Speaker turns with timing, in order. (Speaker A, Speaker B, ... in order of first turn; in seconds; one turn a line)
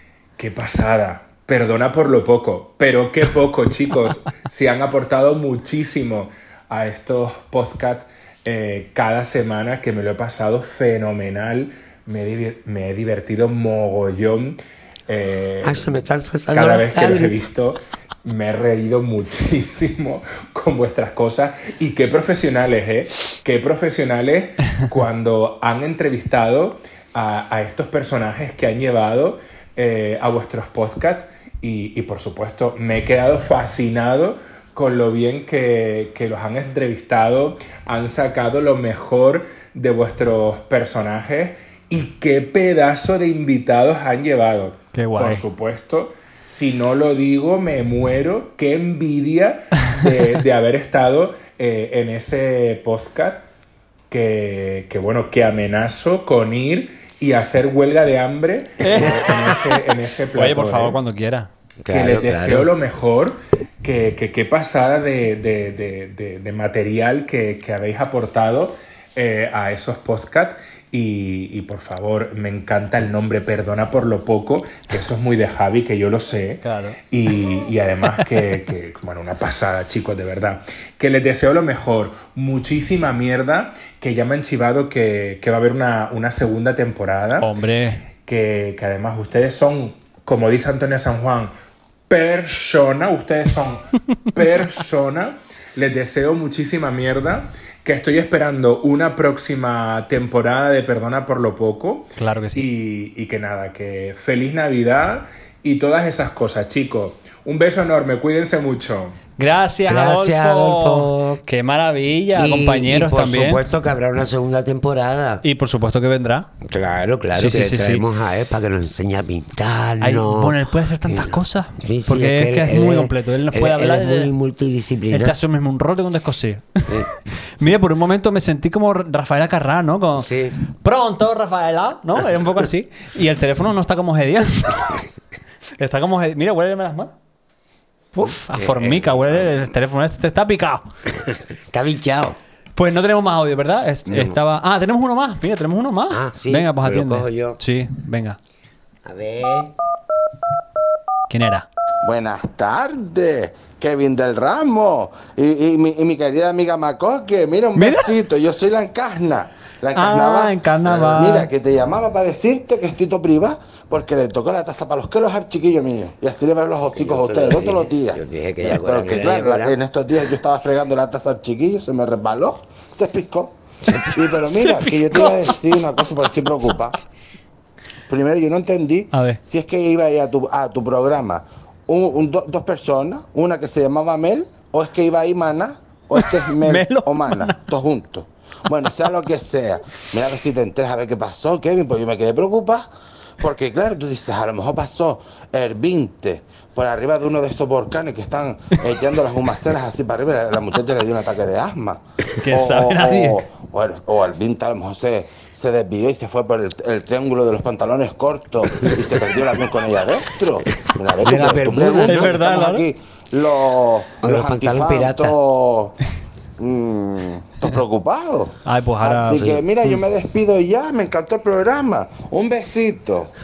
Speaker A: 0.4-15.9
Speaker B: 15.6-17.4
Speaker A: 16.5-53.4
Speaker C: 44.9-45.4
Speaker A: 54.1-61.0
Speaker C: 58.8-59.6
Speaker C: 60.3-61.5
Speaker B: 61.8-62.7
Speaker A: 61.9-87.5
Speaker C: 76.6-77.0
Speaker C: 87.4-88.0
Speaker A: 88.2-91.5
Speaker A: 92.1-109.2
Speaker C: 102.2-102.7
Speaker C: 109.4-113.6
Speaker B: 109.9-111.4
Speaker B: 112.3-115.4
Speaker C: 115.4-116.5
Speaker B: 116.6-125.3
Speaker C: 117.3-118.0
Speaker C: 120.0-124.3
Speaker C: 125.1-135.0
Speaker B: 130.2-130.6
Speaker C: 135.8-137.1
Speaker C: 138.1-140.9
Speaker B: 138.2-139.5
Speaker B: 141.7-142.4
Speaker C: 142.8-148.4
Speaker B: 144.1-144.4
Speaker B: 146.1-147.6
Speaker B: 149.0-149.7
Speaker C: 151.3-151.7
Speaker D: 152.0-173.6
Speaker C: 157.8-158.1
Speaker C: 159.9-161.5
Speaker B: 166.9-169.8
Speaker D: 174.1-176.9
Speaker C: 174.4-175.5
Speaker D: 178.1-192.9
Speaker C: 179.1-179.4
Speaker C: 186.2-187.6
Speaker D: 193.4-215.9
Speaker C: 202.4-203.4
Speaker B: 211.2-212.3
Speaker C: 212.1-212.8
Speaker B: 214.2-215.3
Speaker D: 216.6-223.3
Speaker C: 218.6-219.9